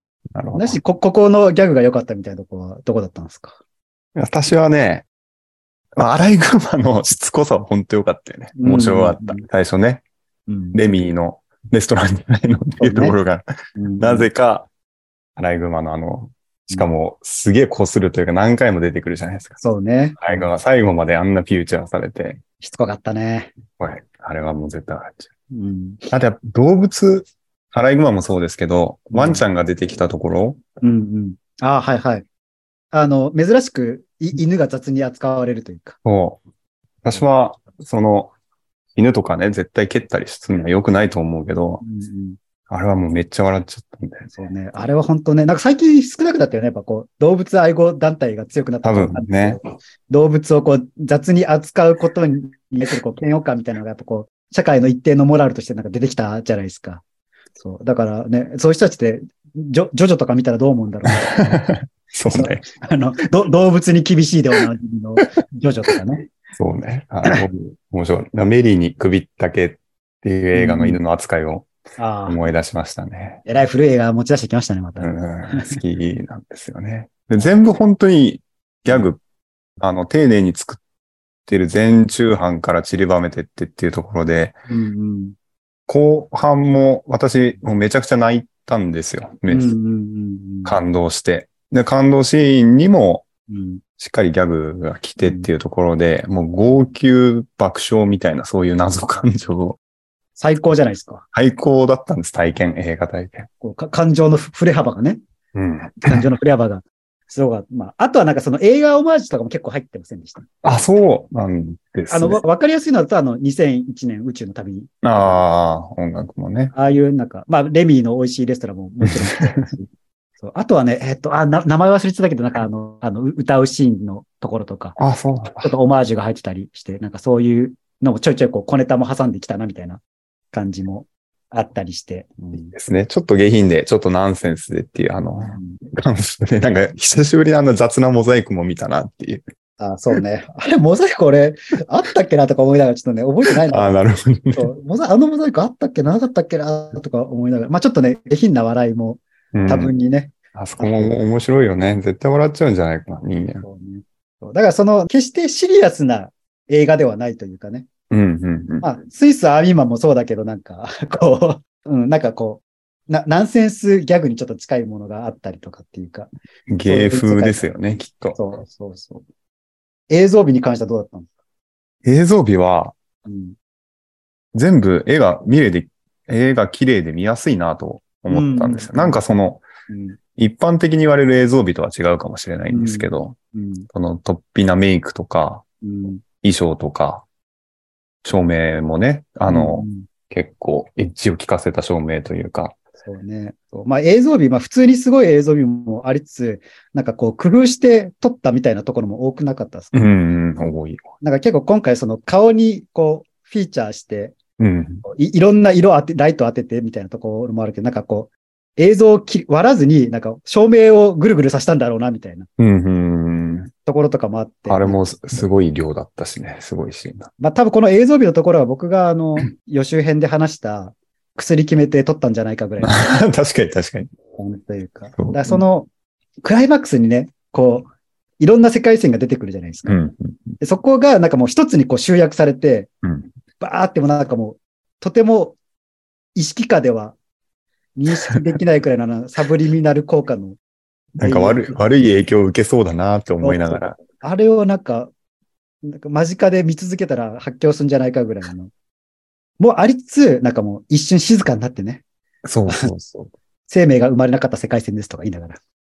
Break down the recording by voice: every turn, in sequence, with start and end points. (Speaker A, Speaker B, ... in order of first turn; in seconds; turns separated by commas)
Speaker A: 0.3-0.8, Speaker B: 0.5-3.6, Speaker A: 4.2-5.1, Speaker A: 6.0-10.0, Speaker B: 8.6-9.4, Speaker B: 10.5-10.8, Speaker A: 10.7-13.4, Speaker B: 12.8-13.2, Speaker B: 13.8-14.3, Speaker A: 14.0-14.7, Speaker A: 15.4-19.6, Speaker B: 19.6-20.5, Speaker A: 20.2-22.4, Speaker B: 22.6-23.5, Speaker A: 23.8-25.3, Speaker B: 25.5-26.1, Speaker A: 26.1-30.6, Speaker B: 29.1-29.4, Speaker B: 30.8-32.2, Speaker B: 32.9-36.0, Speaker A: 36.0-36.4, Speaker A: 37.0-38.3, Speaker A: 38.9-41.8, Speaker B: 41.8-42.4, Speaker A: 42.7-44.3, Speaker B: 44.3-57.0, Speaker A: 48.8-49.6, Speaker B: 57.6-61.6, Speaker A: 61.2-62.6, Speaker B: 62.3-66.3, Speaker A: 66.5-71.7, Speaker B: 70.5-71.0, Speaker B: 72.0-72.4, Speaker A: 72.3-73.4, Speaker B: 73.5-75.8, Speaker A: 75.0-79.2, Speaker A: 79.8-80.8, Speaker A: 81.5-84.5, Speaker B: 84.7-85.3, Speaker A: 85.9-89.7, Speaker B: 89.5-90.8, Speaker A: 90.7-93.3, Speaker B: 93.5-93.8, Speaker A: 94.0-99.8, Speaker B: 95.2-95.5, Speaker B: 100.4-101.2, Speaker A: 101.3-103.5, Speaker B: 103.6-105.2, Speaker A: 105.5-106.2, Speaker B: 105.9-110.5, Speaker A: 110.6-112.4, Speaker B: 112.1-115.4, Speaker A: 115.0-116.7, Speaker B: 116.7-119.9, Speaker A: 119.0-119.7, Speaker B: 120.4-125.0, Speaker A: 125.0-125.7, Speaker B: 125.6-130.0, Speaker B: 130.5-132.7, Speaker A: 132.5-139.4, Speaker B: 135.5-135.8, Speaker B: 139.8-144.0, Speaker A: 143.7-144.7, Speaker B: 144.5-151.2, Speaker A: 149.5-149.9, Speaker A: 150.5-153.6, Speaker B: 153.6-157.9, Speaker A: 158.1-158.8, Speaker B: 158.8-166.3, Speaker A: 166.7-168.4, Speaker B: 166.8-167.7, Speaker B: 168.3-169.2, Speaker B: 170.1-171.3, Speaker A: 172.0-172.9, Speaker B: 173.2-173.5, Speaker A: 174.5-179.7, Speaker B: 178.3-179.2, Speaker B: 179.9-180.2, Speaker A: 180.4-183.3, Speaker B: 182.7-183.9, Speaker A: 183.9-185.6, Speaker B: 185.8-186.2, Speaker A: 186.4-187.2, Speaker A: 188.2-192.8, Speaker B: 189.5-190.1, Speaker B: 193.0-199.9, Speaker A: 199.9-201.0, Speaker B: 201.2-204.4, Speaker A: 204.6-205.0, Speaker B: 205.0-212.5, Speaker A: 212.6-213.7, Speaker B: 213.8-215.4, Speaker A: 214.7-217.3, Speaker B: 217.4-223.2, Speaker A: 222.8-224.1, Speaker B: 224.3-225.9, Speaker A: 225.2-225.6, Speaker B: 226.4-227.9, Speaker B: 228.4-230.0, Speaker A: 229.9-230.5, Speaker B: 230.6-232.9, Speaker B: 233.6-235.6, Speaker B: 236.3-237.2, Speaker B: 238.0-240.6, Speaker B: 241.2-241.8, Speaker A: 241.2-244.0, Speaker B: 243.4-245.1, Speaker B: 245.8-248.7, Speaker B: 249.6-252.0, Speaker A: 252.4-253.3, Speaker B: 253.7-255.6